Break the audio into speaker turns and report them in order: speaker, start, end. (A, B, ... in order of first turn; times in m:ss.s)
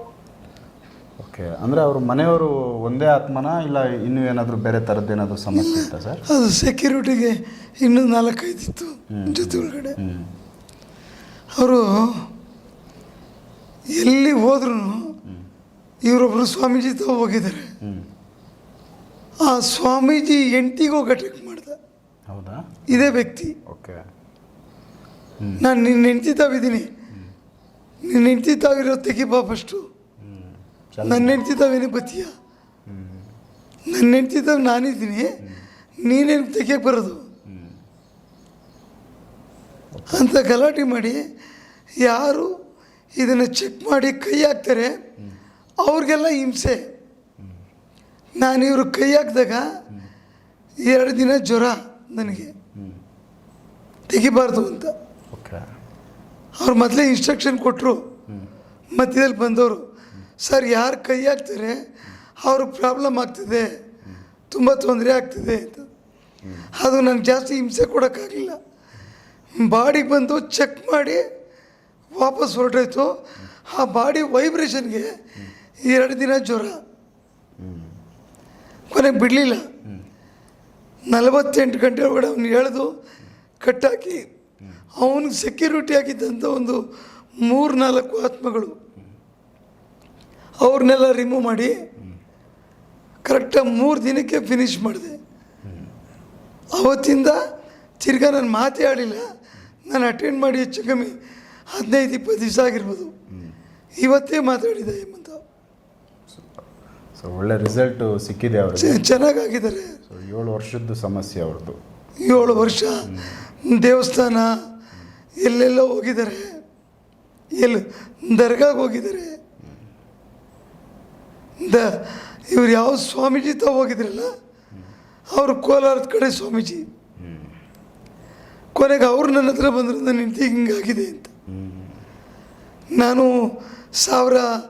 0:01.2-0:06.2 A
0:05.5-0:09.9 B
0:09.1-0:10.3 A
0:11.6-0:12.3 B
0:13.9-0:15.1 B
0:16.0-0:17.7 B
0:19.4-0:21.8 B
0:22.3-0:24.0 A
0:22.9-0:23.5 B
0:25.6-0:26.9 B
0:28.0-0:29.8 B
0:30.2-0:31.4 A
0:31.0-0:32.3 B
0:32.9-0:33.2 A
0:33.9-0:35.3 B
0:36.0-0:37.2 B
0:37.5-0:37.8 A
0:39.9-0:40.3 A
0:40.1-0:41.2 B
0:42.0-0:42.5 B
0:43.1-0:45.0 B
0:45.8-0:46.8 B
0:48.4-0:49.6 B
0:50.8-0:52.5 B
0:52.2-0:53.0 A
0:54.1-0:54.9 B
0:55.3-0:55.6 A
0:56.6-0:58.0 B
0:58.9-0:59.8 B
1:00.4-1:01.8 B
1:02.4-1:03.7 B
1:04.5-1:05.9 B
1:06.4-1:06.7 A
1:06.7-1:08.6 B
1:09.6-1:11.2 B
1:12.1-1:15.1 B
1:15.8-1:16.8 B
1:17.6-1:17.9 A
1:18.9-1:19.6 B
1:21.1-1:22.9 B
1:23.6-1:24.2 B
1:25.0-1:26.8 B
1:27.4-1:28.7 B
1:30.6-1:31.7 B
1:33.2-1:35.2 B
1:35.6-1:35.9 A
1:36.8-1:37.4 B
1:38.0-1:39.2 B
1:39.8-1:41.1 B
1:41.7-1:43.1 B
1:43.3-1:43.6 A
1:44.0-1:45.4 B
1:46.3-1:46.6 A
1:47.2-1:49.0 A
1:48.8-1:50.0 B
1:50.1-1:51.8 A
1:52.2-1:53.1 B
1:52.3-1:53.4 A
1:53.6-1:54.5 B
1:55.4-1:56.6 B
1:57.6-1:59.4 B
2:01.6-2:04.3 B
2:05.3-2:06.8 B
2:07.2-2:07.5 A
2:08.7-2:11.3 B
2:11.5-2:12.0 A
2:12.9-2:13.3 B
2:13.9-2:14.5 B